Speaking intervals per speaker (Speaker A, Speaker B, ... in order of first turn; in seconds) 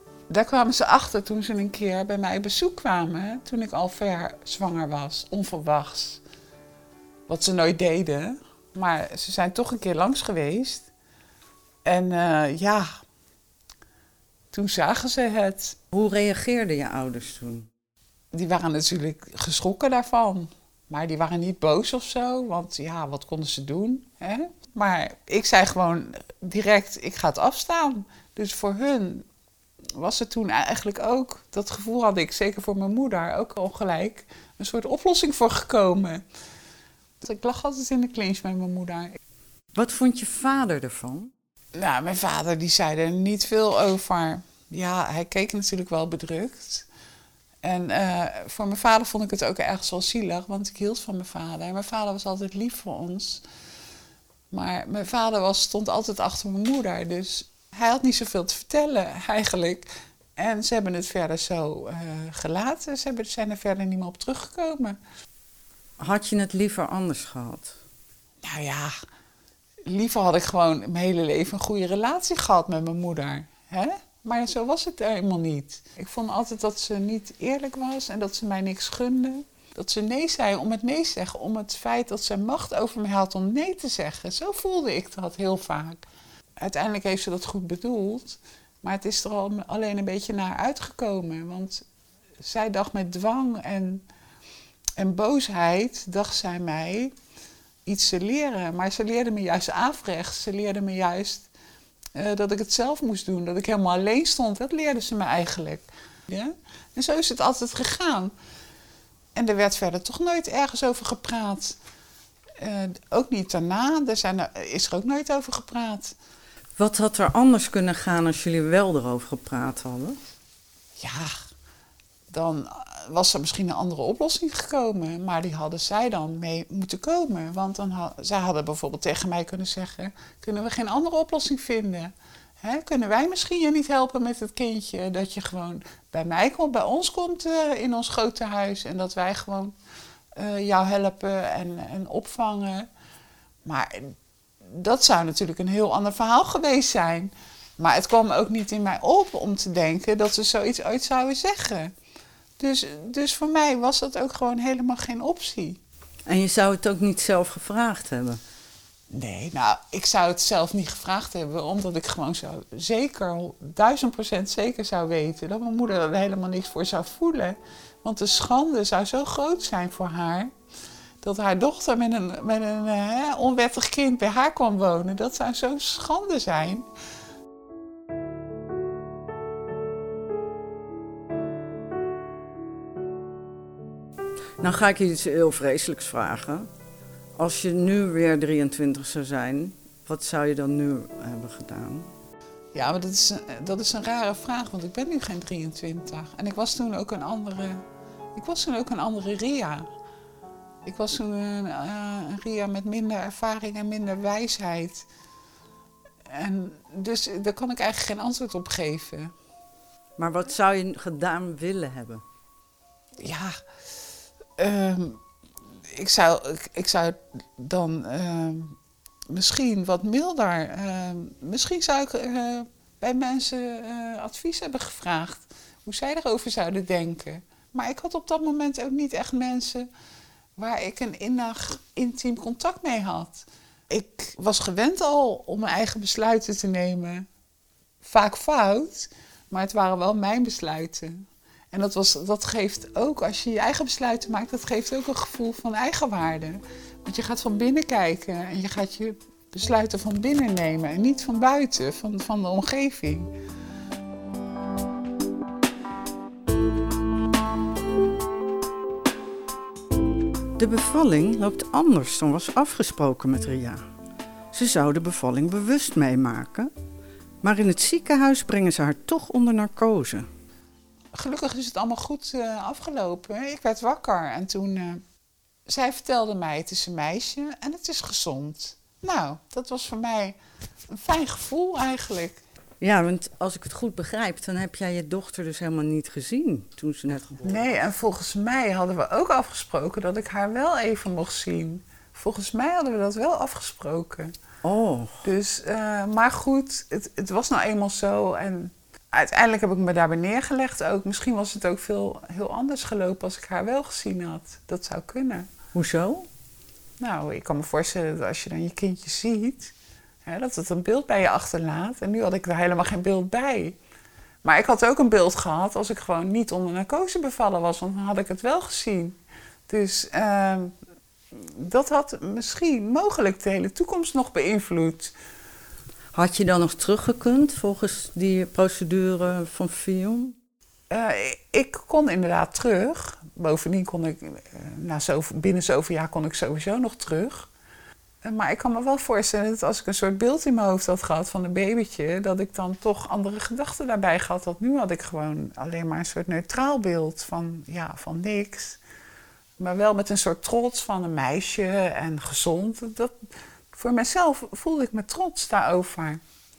Speaker A: 0.3-6.2, 7.3-10.9, 11.8-12.9, 14.5-15.8, 18.3-29.3, 30.0-36.2, 37.2-39.2, 41.7-46.9, 47.6-53.5, 54.5-65.0, 68.4-68.9, 69.9-86.0, 86.6-91.8, 92.4-94.0, 95.0-97.1, 97.9-101.5, 102.2-108.3, 109.3-111.8, 112.6-116.2, 121.0-121.3, 122.3-139.8, 140.3-142.9, 143.7-151.9, 152.6-155.8, 159.1-170.5, 171.2-176.9, 192.7-197.8, 198.3-199.9, 200.8-205.1, 206.3-209.3, 213.2-213.6, 214.6-215.2, 215.9-218.8, 219.3-229.9, 230.6-237.3, 238.0-253.3, 271.1-275.0, 275.7-280.4, 280.9-282.4, 287.4-294.3, 295.2-305.5, 307.0-309.7, 310.2-313.8, 314.4-320.7, 321.3-325.1, 330.9-337.5, 338.2-348.8, 349.6-356.2
Speaker B: 15.9-17.7, 39.8-41.3, 66.0-67.8, 116.8-120.2, 156.3-158.4, 184.6-186.7, 187.4-192.1, 210.2-212.2, 260.6-263.8, 264.5-266.7, 267.4-270.3, 282.8-287.7, 294.6-295.2, 305.8-306.3, 326.1-330.4